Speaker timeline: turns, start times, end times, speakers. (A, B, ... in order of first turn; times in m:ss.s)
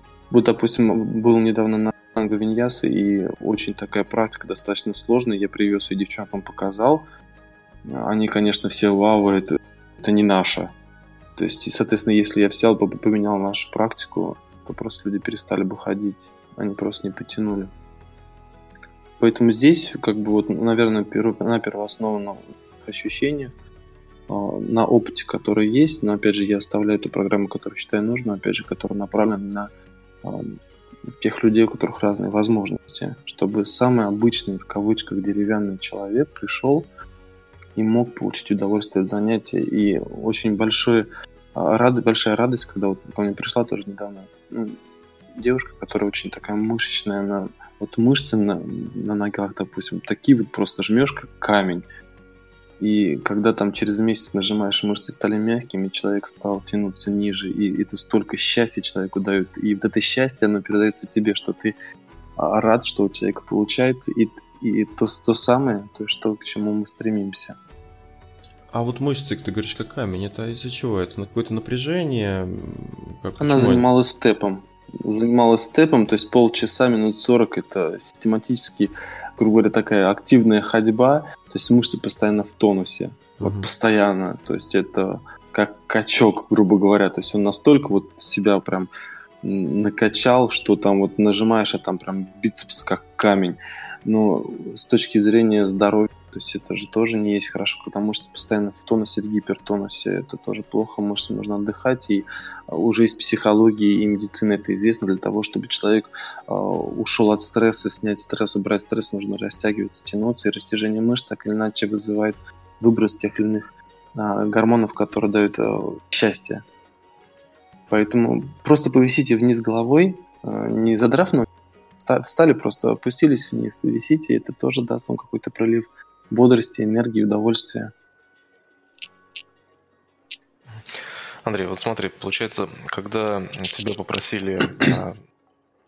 0:00.3-0:07.0 A
0:07.8-0:10.7 A
0:11.4-0:17.7 A
0:19.2-0:23.5 A
0:24.3-0:29.7 A
0:30.2-0:30.6 A
0:31.2-0:36.9 A
0:37.8-0:44.8 A
0:45.3-0:51.8 A
0:52.8-1:01.7 A
1:02.4-1:07.6 A
1:08.7-1:13.9 B
1:13.4-1:28.9 A
1:23.4-1:23.7 B
1:29.4-1:56.6 A
1:57.9-2:01.5 A
2:02.0-2:07.9 A
2:11.4-2:15.2 C